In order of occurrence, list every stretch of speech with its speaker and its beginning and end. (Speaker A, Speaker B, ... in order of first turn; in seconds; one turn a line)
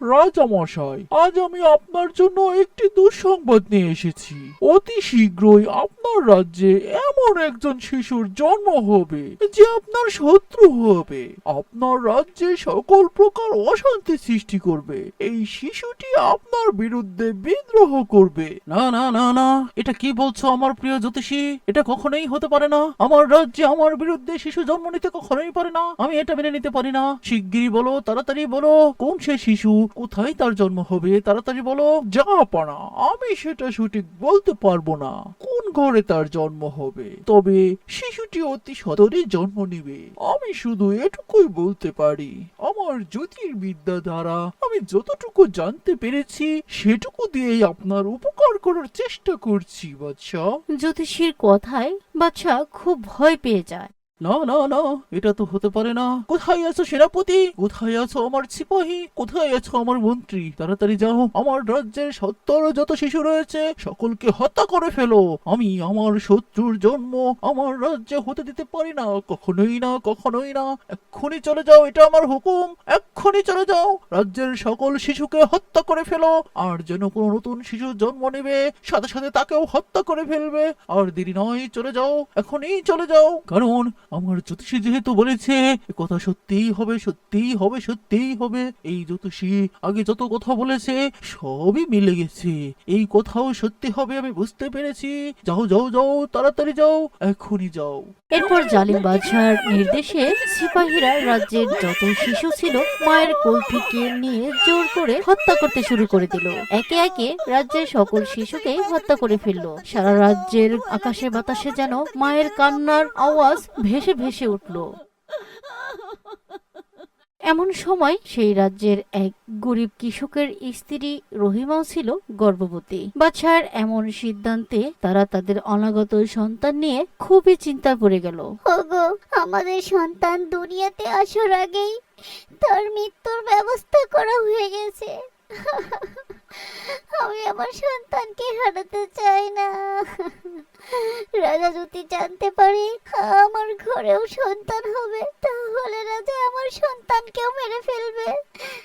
Speaker A: 0.1-50.5
Speaker B: 50.8-53.9
Speaker A: 54.2-100.8
Speaker B: 98.3-114.9
Speaker A: 108.1-114.8
Speaker B: 117.5-128.4
Speaker C: 128.7-131.9
Speaker C: 132.6-148.3